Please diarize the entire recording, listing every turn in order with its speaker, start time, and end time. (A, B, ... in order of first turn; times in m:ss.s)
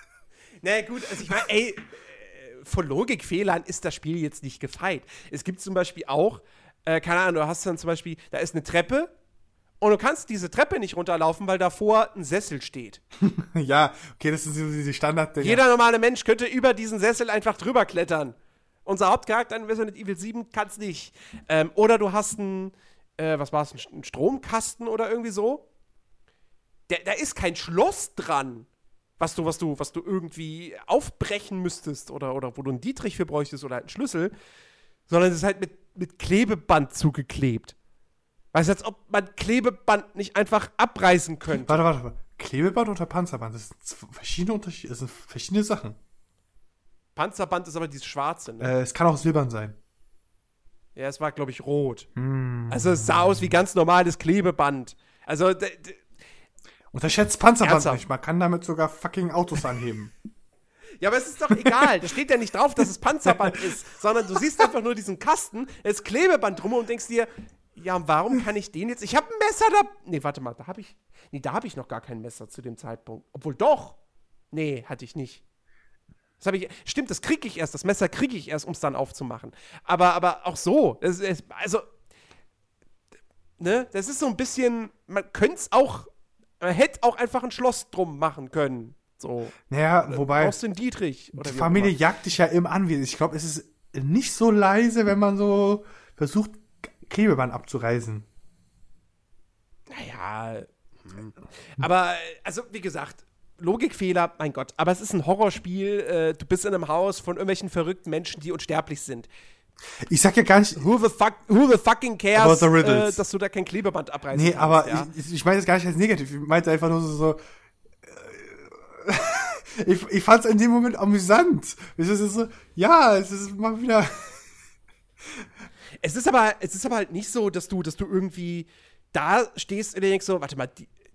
0:00.6-0:09.1 A
0:09.8-0:13.0 A
0:13.2-0:15.6 B
0:15.4-0:25.6 A
0:26.9-0:28.7 A
0:29.2-0:34.3 A
0:35.1-0:37.7 A
0:38.5-0:41.8 A
0:41.6-0:46.0 B
0:47.2-0:48.7 A
0:48.6-0:49.8 B
0:51.0-0:52.1 A
0:52.2-0:53.4 B
0:52.7-0:56.0 A
0:56.9-1:00.1 B
0:57.6-0:58.0 A
1:01.0-1:14.0 A
1:14.5-1:15.4 A
1:16.4-1:21.8 A
1:23.6-1:26.1 A
1:26.6-1:29.6 A
1:29.7-1:30.6 B
1:30.1-1:32.0 A
1:31.3-1:38.2 B
1:39.9-1:49.3 A
1:50.1-1:50.8 B
1:50.8-1:55.1 A
1:52.3-1:53.2 B
1:54.3-1:57.4 B
1:58.0-2:04.5 B
2:06.0-2:10.9 A